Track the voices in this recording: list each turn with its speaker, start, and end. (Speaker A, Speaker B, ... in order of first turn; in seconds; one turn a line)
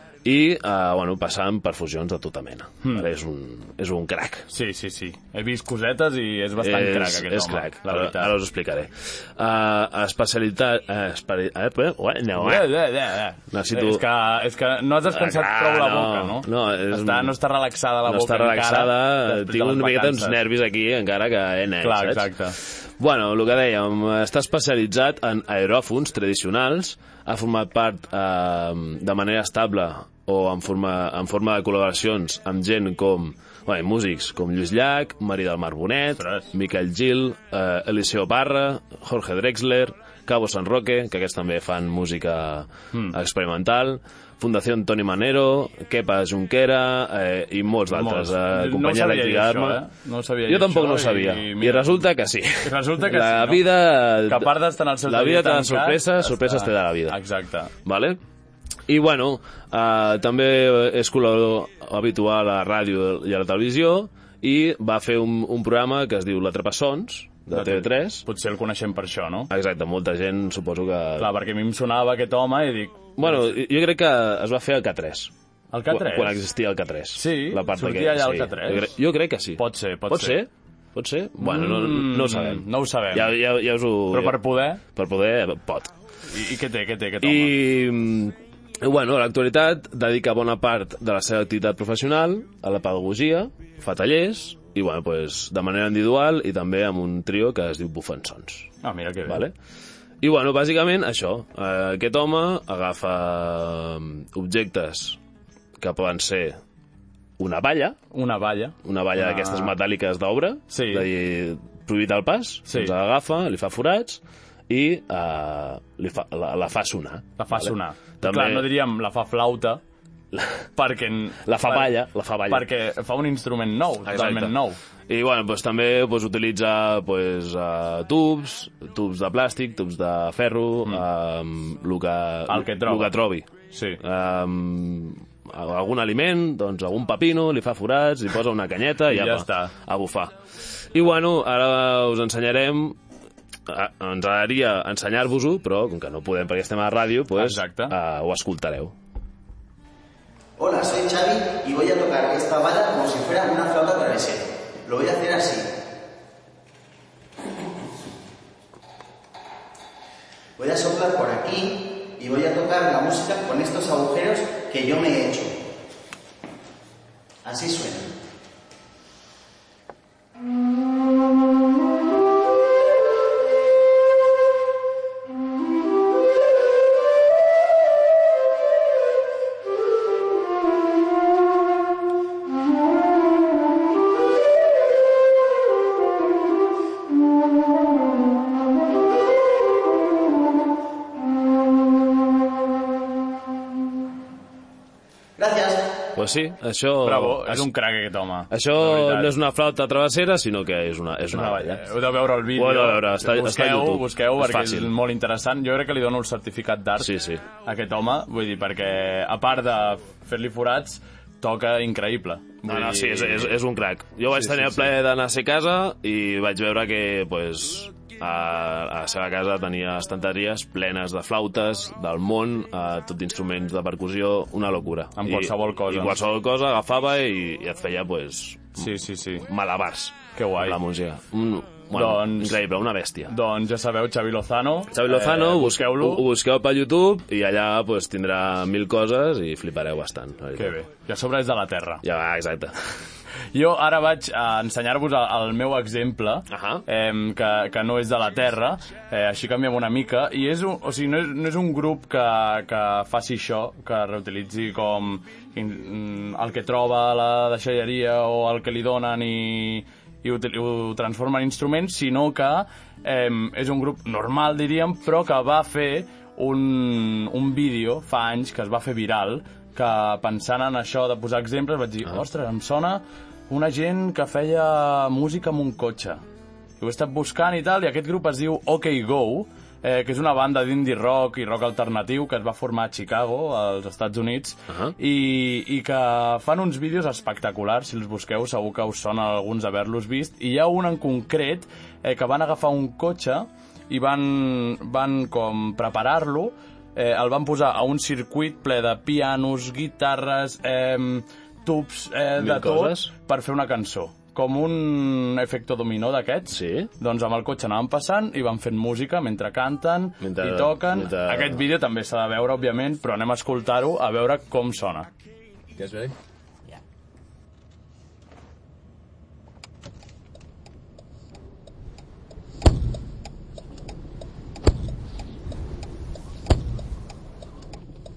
Speaker A: 0.2-4.5
Speaker B: 4.5-8.3
Speaker A: 6.6-12.8
Speaker B: 12.3-20.4
Speaker A: 13.5-14.0
Speaker A: 15.1-17.3
Speaker A: 18.0-49.8
Speaker B: 21.8-22.6
Speaker B: 36.2-36.5
Speaker B: 47.9-52.0
Speaker A: 50.5-57.2
Speaker B: 52.6-53.6
Speaker B: 54.2-57.7
Speaker A: 57.8-58.2
Speaker A: 58.9-68.2
Speaker B: 67.5-69.5
Speaker A: 69.5-71.3
Speaker B: 71.2-73.5
Speaker A: 73.2-75.3
Speaker B: 75.7-76.4
Speaker A: 75.9-84.4
Speaker B: 77.1-78.9
Speaker B: 79.6-80.4
Speaker B: 81.4-83.3
Speaker B: 84.1-84.8
Speaker A: 84.9-85.9
Speaker B: 86.3-87.6
Speaker A: 87.2-98.7
Speaker B: 98.8-99.5
Speaker A: 99.3-99.5
Speaker A: 100.2-105.2
Speaker A: 105.8-106.6
Speaker A: 107.4-108.0
Speaker B: 108.1-109.7
Speaker A: 108.8-118.7
Speaker B: 110.7-111.1
Speaker B: 112.7-112.9
Speaker B: 117.4-119.8
Speaker A: 120.3-120.6
Speaker B: 120.8-121.9
Speaker A: 121.5-122.7
Speaker B: 122.5-124.8
Speaker A: 124.1-124.6
Speaker A: 125.1-133.5
Speaker B: 132.5-133.1
Speaker B: 133.7-134.0
Speaker A: 134.0-140.3
Speaker B: 139.1-139.7
Speaker A: 140.9-143.0
Speaker A: 143.7-148.9
Speaker B: 147.3-147.9
Speaker C: 150.6-155.7
Speaker C: 160.6-165.5
Speaker C: 167.4-168.1
Speaker C: 195.4-195.9
Speaker A: 196.2-197.7
Speaker B: 197.0-199.3
Speaker A: 198.5-201.8
Speaker B: 201.3-207.1
Speaker A: 202.5-204.9
Speaker A: 207.0-207.4
Speaker B: 207.6-213.6
Speaker A: 212.7-228.9
Speaker B: 214.3-214.9
Speaker B: 225.2-226.2
Speaker B: 228.8-229.5
Speaker A: 229.5-233.3
Speaker B: 230.3-230.8
Speaker B: 231.9-232.6
Speaker B: 233.3-236.2
Speaker A: 234.9-240.7
Speaker B: 240.6-242.0
Speaker A: 242.0-242.7
Speaker B: 243.5-276.2
Speaker A: 246.5-246.8
Speaker B: 276.8-315.1
Speaker A: 284.7-284.9
Speaker A: 302.4-303.1
Speaker A: 306.5-306.9
Speaker A: 310.2-311.6
Speaker A: 315.8-316.1